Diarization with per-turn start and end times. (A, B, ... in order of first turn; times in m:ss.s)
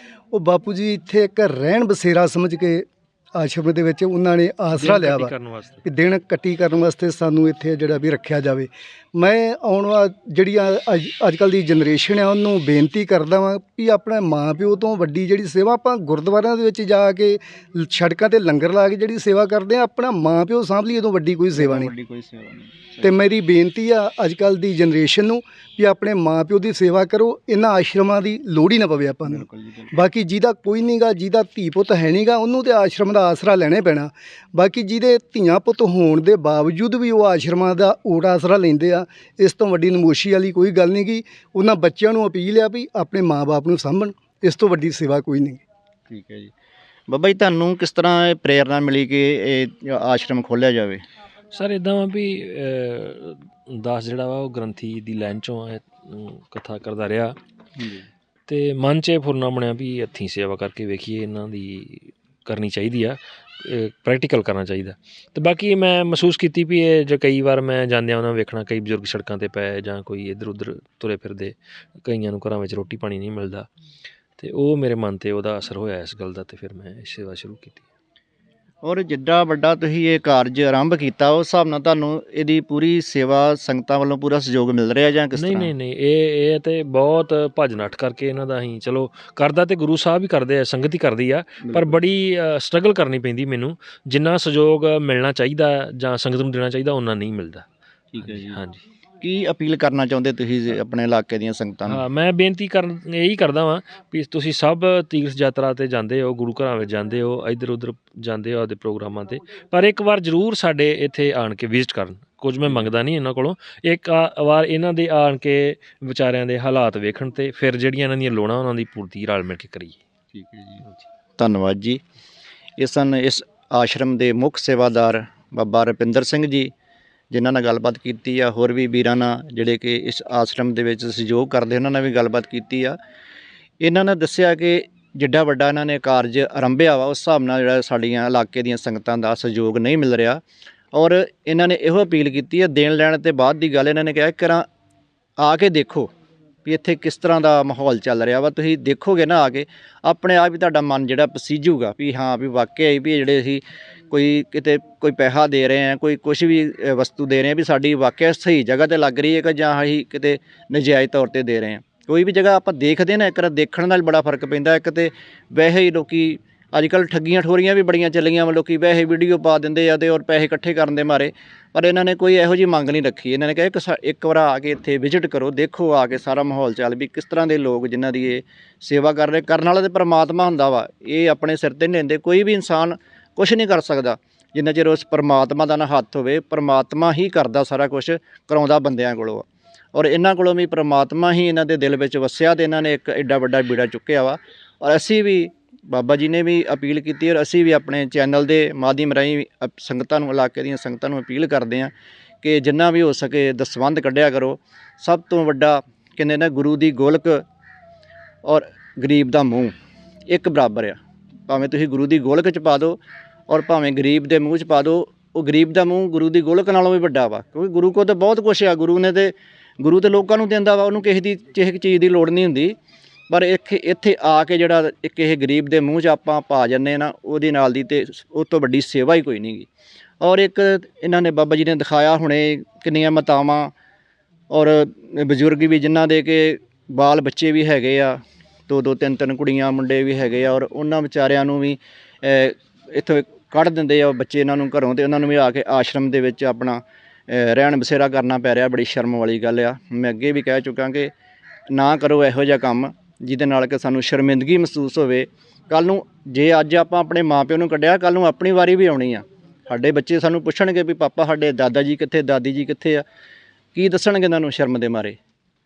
0:00.3-0:05.3 A
0:04.7-0:05.8 B
0:05.8-0:21.9 A
0:21.5-0:23.1 C
0:23.0-0:45.6 A
0:29.3-0:29.9 C
0:46.1-0:46.5 C
0:47.1-0:51.0 C
0:51.5-0:57.4 B
0:57.8-0:58.1 C
0:58.5-1:13.7 B
1:14.4-1:17.8 B
1:18.8-1:25.7 C
1:25.3-1:37.6 B
1:31.6-1:32.0 C
1:38.1-1:38.6 C
1:38.2-1:38.8 B
1:39.2-1:42.0 C
1:41.9-2:00.0 B
2:00.3-2:00.8 C
2:01.4-2:02.0 C
2:02.8-2:06.7 C
2:07.3-2:13.0 C
2:13.8-2:20.4 C
2:20.9-2:24.6 C
2:25.4-2:26.1 C
2:26.6-3:21.9 C
3:22.4-3:27.4 C
3:28.4-3:29.7 C
3:30.3-3:42.8 C
3:43.3-3:49.7 C
3:50.2-3:53.7 C
3:54.5-4:11.1 C
4:11.7-4:23.0 C
4:23.7-4:25.2 C